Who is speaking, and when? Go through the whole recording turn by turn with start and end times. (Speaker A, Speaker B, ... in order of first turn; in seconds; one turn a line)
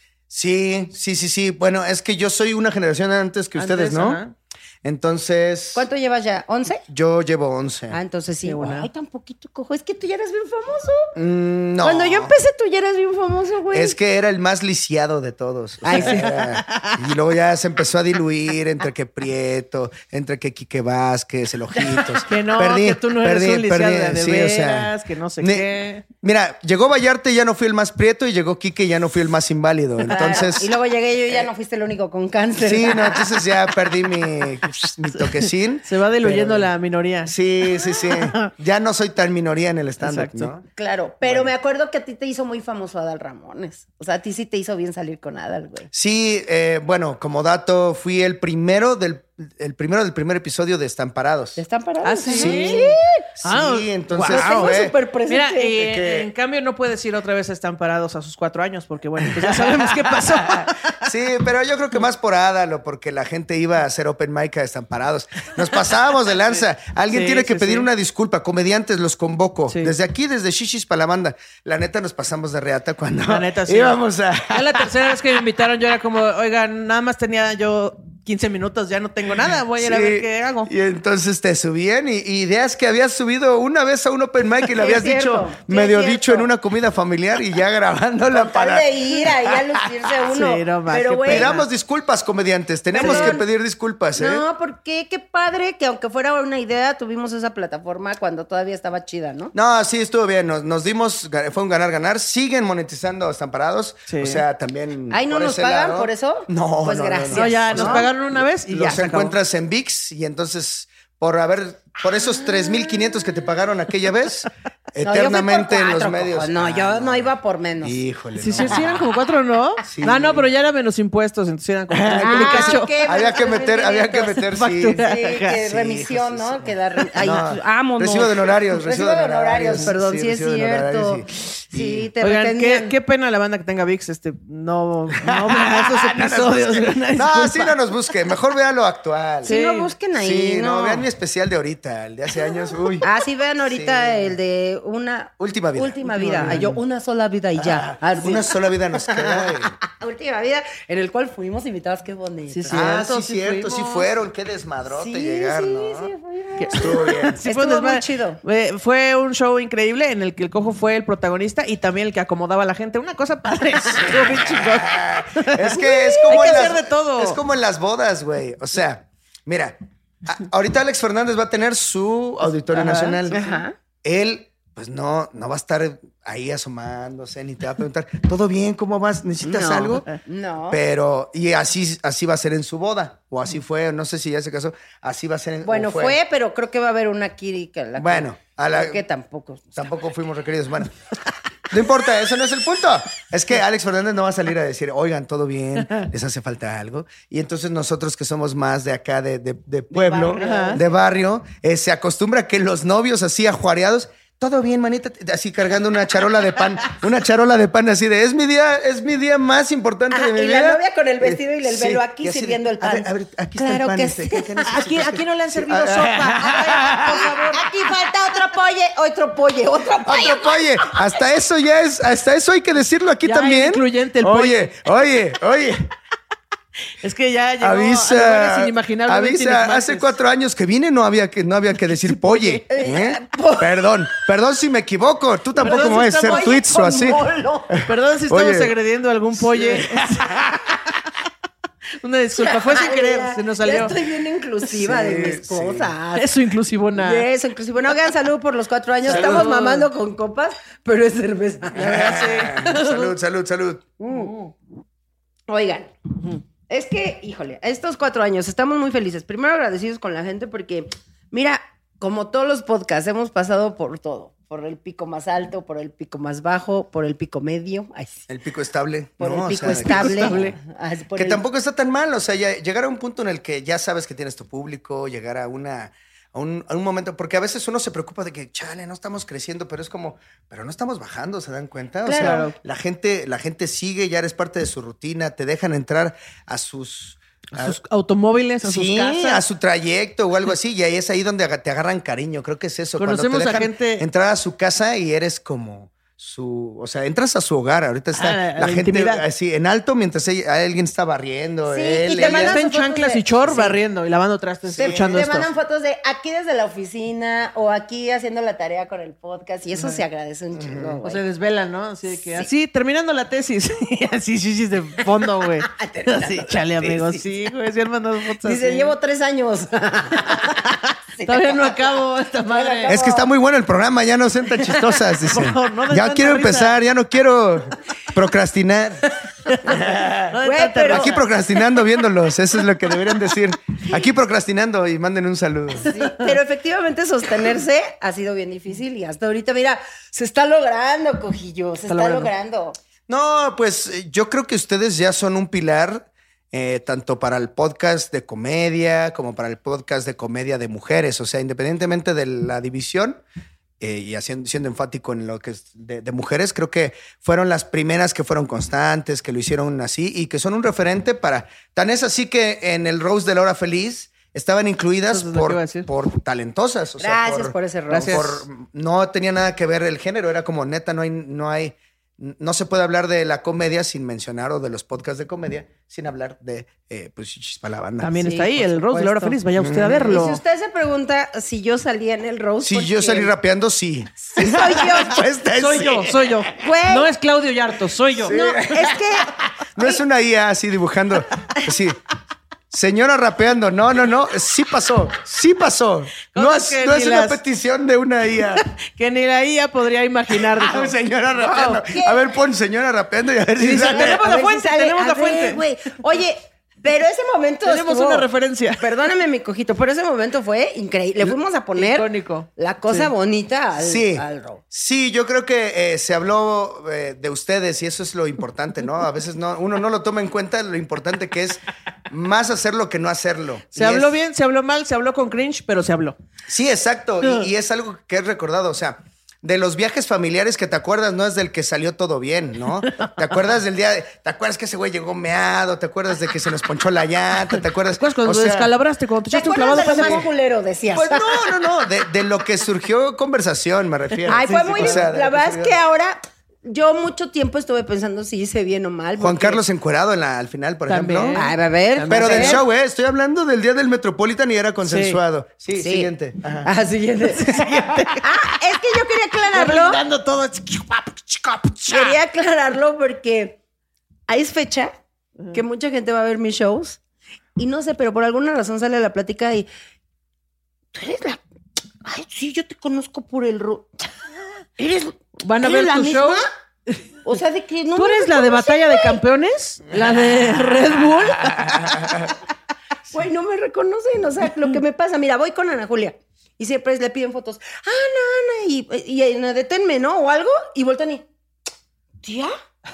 Speaker A: 0.3-4.2
Speaker B: 3.5-4.3
Speaker A: 4.8-5.9
Speaker C: 5.8-6.8
Speaker A: 6.9-8.0
Speaker C: 7.9-11.1
Speaker B: 8.4-8.9
Speaker A: 11.1-12.3
Speaker C: 11.8-13.9
Speaker A: 13.7-25.7
Speaker C: 15.8-16.3
Speaker B: 15.9-17.0
Speaker B: 22.2-26.0
Speaker A: 26.2-30.7
Speaker C: 30.1-33.3
Speaker A: 32.6-36.7
Speaker B: 35.1-38.5
Speaker A: 37.2-40.6
Speaker B: 40.0-40.5
Speaker C: 40.8-45.9
Speaker A: 41.2-41.5
Speaker A: 45.9-51.6
Speaker C: 51.6-53.1
Speaker B: 52.0-54.8
Speaker A: 52.3-54.9
Speaker C: 54.2-55.8
Speaker B: 55.3-61.1
Speaker A: 55.8-56.3
Speaker A: 59.2-74.9
Speaker B: 66.5-67.9
Speaker B: 69.7-70.0
Speaker B: 73.2-74.0
Speaker B: 74.5-80.7
Speaker A: 79.8-89.8
Speaker C: 84.7-86.5
Speaker C: 88.3-91.5
Speaker B: 90.3-91.7
Speaker A: 91.2-94.4
Speaker C: 92.9-93.4
Speaker B: 93.0-93.4
Speaker C: 94.2-99.5
Speaker A: 99.5-117.3
Speaker B: 104.1-104.4
Speaker C: 105.1-108.1
Speaker B: 107.3-109.3
Speaker C: 115.0-118.0
Speaker A: 117.8-119.1
Speaker B: 118.4-122.9
Speaker A: 119.9-120.5
Speaker A: 121.9-132.1
Speaker C: 122.2-124.4
Speaker B: 124.5-125.5
Speaker C: 125.0-132.9
Speaker B: 132.2-137.8
Speaker A: 135.2-139.6
Speaker C: 139.4-141.0
Speaker B: 139.4-139.9
Speaker A: 140.2-143.1
Speaker C: 143.0-152.8
Speaker A: 143.7-144.4
Speaker A: 145.4-146.8
Speaker B: 146.2-146.6
Speaker A: 147.6-149.8
Speaker B: 152.5-154.1
Speaker A: 152.7-156.1
Speaker C: 154.8-158.4
Speaker B: 156.6-167.4
Speaker A: 156.7-157.4
Speaker A: 163.9-173.4
Speaker C: 165.7-166.5
Speaker B: 172.7-173.6
Speaker C: 173.3-173.8
Speaker A: 174.0-180.1
Speaker C: 179.4-180.8
Speaker A: 180.7-186.2
Speaker C: 185.6-189.8
Speaker A: 188.0-189.0
Speaker A: 189.8-190.9
Speaker A: 191.7-217.3
Speaker C: 199.9-200.8
Speaker B: 200.4-200.8
Speaker C: 210.1-214.7
Speaker B: 214.7-217.7
Speaker C: 217.5-221.2
Speaker A: 220.0-225.9
Speaker B: 223.2-224.7
Speaker B: 227.0-230.1
Speaker A: 227.6-238.7
Speaker B: 231.9-232.6
Speaker C: 232.7-233.9
Speaker B: 235.6-236.5
Speaker C: 235.7-237.8
Speaker B: 237.9-240.8
Speaker A: 239.3-240.6
Speaker B: 242.0-243.9
Speaker C: 242.3-246.4
Speaker A: 244.7-245.9
Speaker B: 246.1-247.3
Speaker C: 246.9-251.9
Speaker A: 249.1-249.5
Speaker B: 249.1-249.9
Speaker B: 251.8-253.1
Speaker A: 251.8-253.9
Speaker C: 254.0-254.3
Speaker C: 255.5-268.2
Speaker A: 268.3-270.5
Speaker C: 269.2-271.4
Speaker B: 269.8-270.5
Speaker A: 271.1-287.8
Speaker C: 282.0-282.5
Speaker B: 282.2-282.5
Speaker B: 287.5-289.4
Speaker A: 288.6-302.6
Speaker B: 293.0-294.1
Speaker B: 298.1-299.2
Speaker C: 301.6-303.8
Speaker B: 302.1-305.5
Speaker A: 304.7-305.3
Speaker C: 304.8-311.2
Speaker B: 309.8-310.0
Speaker A: 310.5-311.0
Speaker B: 311.0-318.9
Speaker C: 312.1-312.5
Speaker C: 315.6-317.3
Speaker C: 318.4-323.3
Speaker B: 321.2-322.9
Speaker A: 322.9-329.1
Speaker B: 325.1-326.8
Speaker B: 329.5-331.2
Speaker A: 329.6-330.3
Speaker C: 330.4-331.2
Speaker A: 330.9-335.9
Speaker C: 335.8-342.8
Speaker B: 335.9-336.3
Speaker B: 341.9-342.3
Speaker A: 343.1-353.2
Speaker A: 353.8-378.1
Speaker B: 365.1-365.9
Speaker C: 367.0-368.3
Speaker B: 367.9-368.4
Speaker B: 378.0-380.4
Speaker C: 378.2-379.4
Speaker A: 379.5-380.2
Speaker C: 380.0-383.3
Speaker A: 382.6-386.4
Speaker C: 384.3-385.2
Speaker B: 385.5-388.4
Speaker C: 386.5-387.1
Speaker A: 388.2-389.0
Speaker C: 388.3-390.0
Speaker A: 389.8-392.0
Speaker A: 392.7-398.6
Speaker B: 396.3-397.4
Speaker B: 398.6-400.9
Speaker A: 400.4-404.2
Speaker C: 401.4-402.3
Speaker B: 403.6-405.6
Speaker C: 403.8-408.3
Speaker B: 407.6-408.9
Speaker C: 408.8-414.6
Speaker B: 411.8-413.1
Speaker A: 413.8-424.1
Speaker B: 423.8-426.1
Speaker A: 426.5-438.7
Speaker B: 432.8-433.1
Speaker B: 438.0-440.3
Speaker C: 439.3-441.4
Speaker A: 439.9-440.3
Speaker A: 440.9-445.8
Speaker C: 444.3-449.6
Speaker B: 444.4-445.0
Speaker A: 449.2-451.4
Speaker B: 450.9-452.6
Speaker C: 451.3-452.6
Speaker A: 452.1-456.7
Speaker B: 454.8-455.2
Speaker C: 455.8-456.1
Speaker C: 456.6-460.0
Speaker B: 457.3-458.2
Speaker B: 459.5-462.2
Speaker C: 461.9-463.6
Speaker C: 464.3-464.9
Speaker C: 465.5-467.0
Speaker C: 467.6-469.7
Speaker C: 470.9-471.4
Speaker C: 472.0-473.9
Speaker C: 474.8-476.5
Speaker B: 475.4-477.0
Speaker C: 477.2-479.2
Speaker B: 477.9-482.3
Speaker A: 481.8-482.2
Speaker C: 483.1-491.2
Speaker C: 492.2-492.5